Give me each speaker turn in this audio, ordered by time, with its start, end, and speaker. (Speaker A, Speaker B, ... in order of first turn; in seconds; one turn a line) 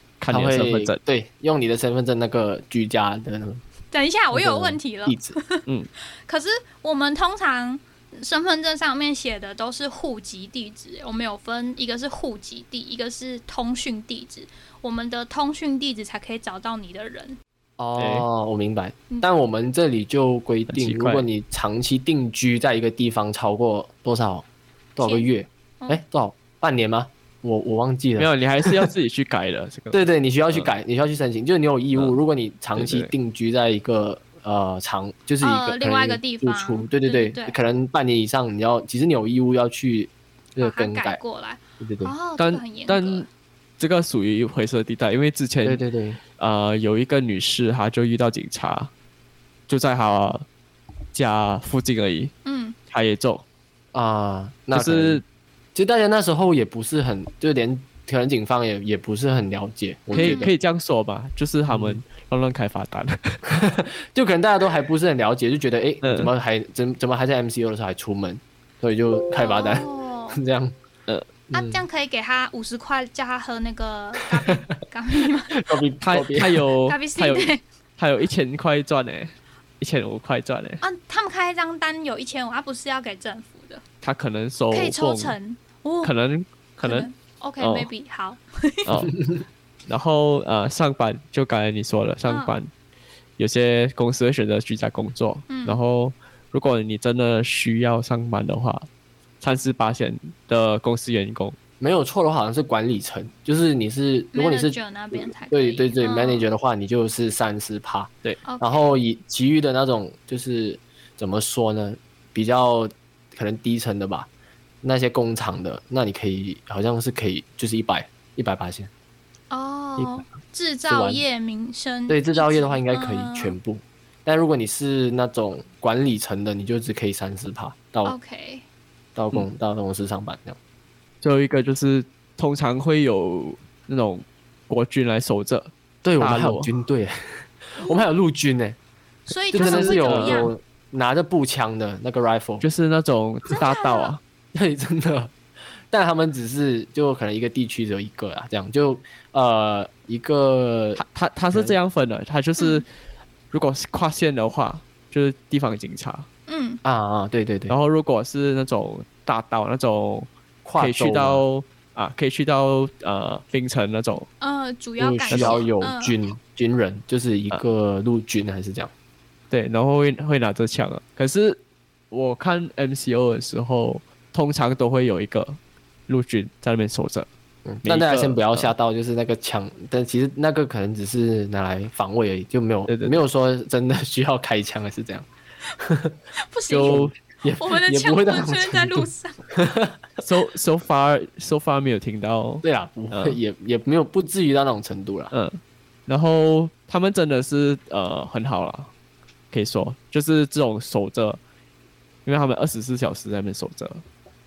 Speaker A: 0.2-1.0
Speaker B: 0.3-3.6
Speaker C: 3.9-5.6
Speaker B: 4.3-5.4
Speaker C: 6.3-17.4
Speaker B: 17.8-28.9
Speaker A: 18.0-18.3
Speaker A: 20.7-21.3
Speaker C: 25.0-26.0
Speaker A: 28.2-30.0
Speaker B: 29.9-41.2
Speaker A: 32.8-33.1
Speaker C: 35.4-37.6
Speaker C: 40.6-43.3
Speaker B: 41.8-42.1
Speaker A: 42.4-43.3
Speaker A: 43.8-45.8
Speaker B: 45.6-46.2
Speaker A: 46.4-48.9
Speaker A: 49.7-50.5
Speaker A: 51.1-52.3
Speaker C: 52.5-52.8
Speaker A: 52.9-53.4
Speaker B: 53.9-55.2
Speaker A: 54.7-55.2
Speaker B: 55.8-60.5
Speaker A: 60.1-63.4
Speaker C: 60.2-60.5
Speaker B: 61.7-62.0
Speaker B: 63.5-70.8
Speaker A: 66.0-66.3
Speaker C: 69.4-70.4
Speaker B: 71.5-71.8
Speaker C: 71.5-75.6
Speaker B: 75.5-76.7
Speaker A: 76.0-80.8
Speaker C: 76.9-77.6
Speaker C: 80.8-83.8
Speaker A: 84.0-85.4
Speaker C: 84.7-86.1
Speaker A: 86.0-87.1
Speaker C: 86.8-89.0
Speaker A: 87.6-87.9
Speaker A: 88.9-89.2
Speaker A: 89.9-92.7
Speaker C: 92.2-92.5
Speaker A: 93.4-98.9
Speaker C: 95.5-95.8
Speaker A: 99.4-101.6
Speaker B: 101.8-114.3
Speaker C: 104.3-106.5
Speaker C: 108.5-108.8
Speaker B: 114.8-118.9
Speaker C: 119.5-123.6
Speaker B: 120.9-121.2
Speaker B: 122.1-128.2
Speaker C: 128.1-128.7
Speaker B: 129.2-130.6
Speaker A: 131.2-136.7
Speaker B: 136.0-137.1
Speaker B: 137.8-138.8
Speaker C: 139.3-140.5
Speaker B: 139.5-142.6
Speaker A: 139.6-140.5
Speaker A: 142.6-144.2
Speaker C: 143.5-144.1
Speaker B: 144.5-145.3
Speaker B: 145.9-151.8
Speaker A: 151.0-152.9
Speaker C: 152.6-152.8
Speaker A: 153.5-156.3
Speaker C: 156.5-156.8
Speaker B: 156.8-157.8
Speaker A: 157.7-164.3
Speaker B: 160.7-161.4
Speaker C: 164.4-166.2
Speaker B: 165.0-168.9
Speaker A: 165.3-165.6
Speaker A: 169.5-171.6
Speaker A: 172.1-177.3
Speaker B: 177.7-185.3
Speaker A: 177.8-178.7
Speaker A: 182.9-183.2
Speaker B: 185.8-186.2
Speaker C: 186.5-189.4
Speaker A: 186.7-187.1
Speaker B: 186.8-190.0
Speaker A: 190.2-193.4
Speaker B: 192.6-195.3
Speaker A: 195.3-198.9
Speaker A: 199.5-201.4
Speaker A: 202.2-204.0